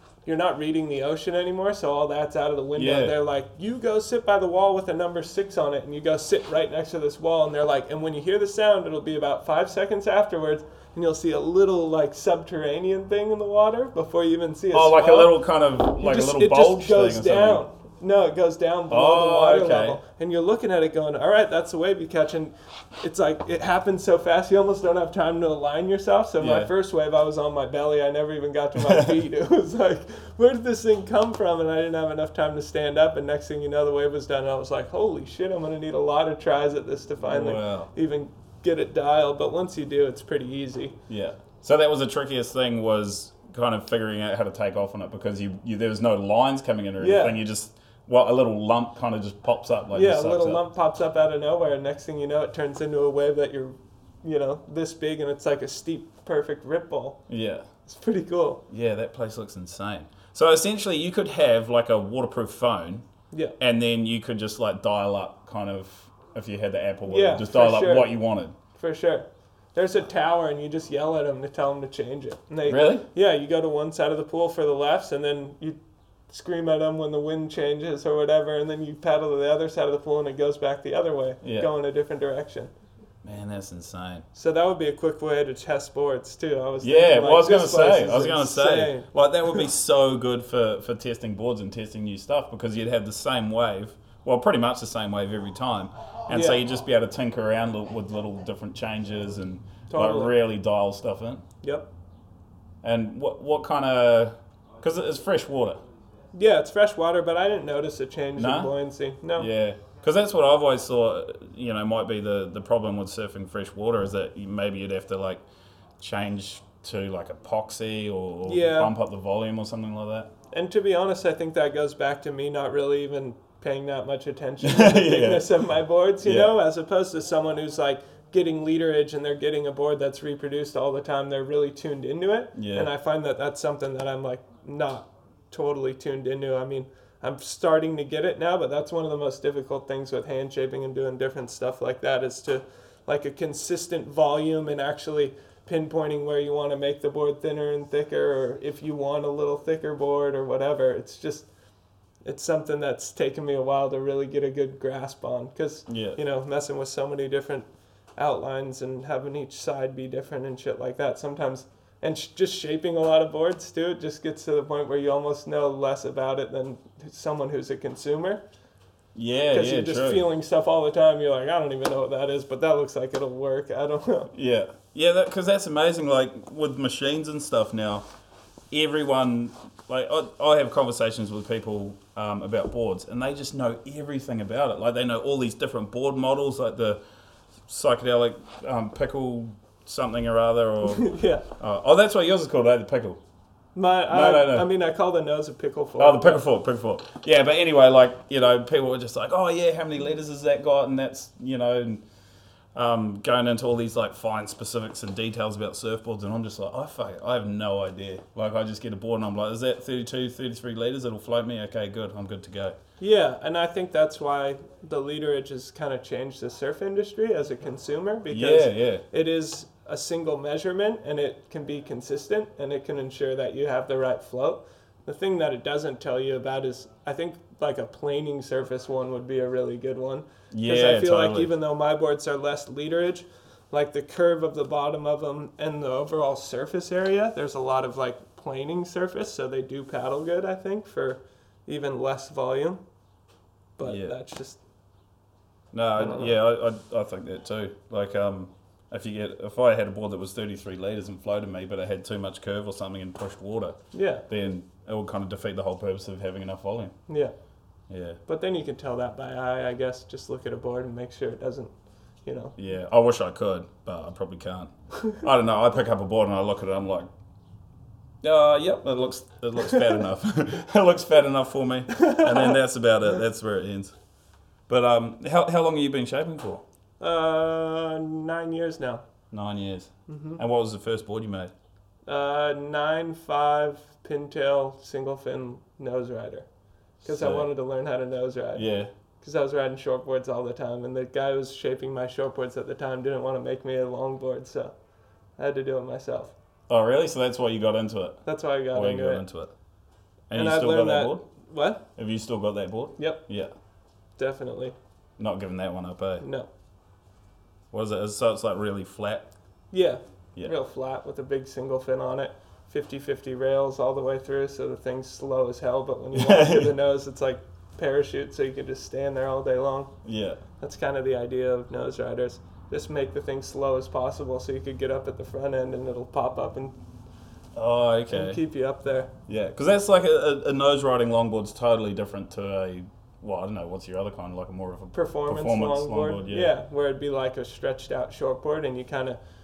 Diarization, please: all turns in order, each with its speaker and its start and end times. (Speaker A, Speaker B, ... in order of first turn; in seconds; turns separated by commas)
Speaker A: 0.2-15.4, Speaker B: 2.8-3.1, Speaker B: 14.7-17.6, Speaker A: 15.9-41.0, Speaker B: 18.9-20.0, Speaker B: 26.4-26.7, Speaker B: 28.8-29.1, Speaker B: 37.2-37.9, Speaker B: 41.1-50.6, Speaker A: 47.0-47.4, Speaker A: 49.9-57.2, Speaker B: 57.3-57.7, Speaker A: 57.9-58.6, Speaker B: 58.7-63.0, Speaker A: 63.3-63.5, Speaker B: 63.6-68.5, Speaker A: 67.1-68.1, Speaker A: 68.8-75.8, Speaker B: 72.7-73.0, Speaker A: 76.3-82.7, Speaker B: 81.4-81.7, Speaker B: 83.2-84.2, Speaker A: 84.3-89.6, Speaker B: 86.8-101.4, Speaker A: 96.3-96.6, Speaker A: 99.9-100.3, Speaker A: 101.6-101.9, Speaker B: 102.8-105.8, Speaker A: 106.3-109.5, Speaker B: 108.3-108.7, Speaker B: 109.3-115.4, Speaker B: 116.0-120.3, Speaker A: 118.4-118.9, Speaker A: 120.5-151.5, Speaker B: 124.6-125.6, Speaker B: 126.2-126.5, Speaker B: 132.5-132.9, Speaker A: 152.2-168.4, Speaker B: 155.9-156.2, Speaker B: 169.1-170.2, Speaker A: 169.5-174.3, Speaker B: 174.3-178.1, Speaker B: 178.7-187.0, Speaker B: 187.7-193.2, Speaker A: 190.8-191.4, Speaker A: 193.7-196.4, Speaker B: 194.1-194.7, Speaker B: 196.0-202.0, Speaker B: 202.7-212.8, Speaker A: 213.0-242.8, Speaker B: 218.3-219.0, Speaker B: 230.5-231.5, Speaker A: 243.8-244.6, Speaker B: 243.8-244.1, Speaker B: 245.7-256.9, Speaker A: 246.0-246.3, Speaker A: 253.9-254.2, Speaker A: 257.1-257.3, Speaker B: 257.9-258.2, Speaker A: 258.3-261.7, Speaker A: 262.2-262.5, Speaker B: 262.6-267.1, Speaker B: 268.2-273.9, Speaker A: 271.9-272.5, Speaker B: 274.7-276.6, Speaker A: 277.0-279.0, Speaker B: 279.3-281.5, Speaker A: 280.1-280.4, Speaker A: 282.1-286.4, Speaker A: 287.0-288.6, Speaker B: 287.0-287.5, Speaker B: 288.6-288.9, Speaker A: 289.2-294.7, Speaker A: 295.4-296.3, Speaker B: 296.7-298.2, Speaker A: 298.2-299.2, Speaker B: 298.7-299.5, Speaker B: 300.3-301.2, Speaker A: 300.3-301.8, Speaker B: 301.9-303.5, Speaker A: 303.0-303.2, Speaker A: 304.2-304.8, Speaker B: 305.2-306.2, Speaker A: 306.2-306.5, Speaker B: 307.7-309.3, Speaker A: 309.7-319.9, Speaker B: 316.1-316.7, Speaker B: 320.0-320.4, Speaker A: 320.6-326.8, Speaker B: 327.5-328.4, Speaker A: 328.1-329.1, Speaker B: 329.3-336.5, Speaker A: 334.9-339.2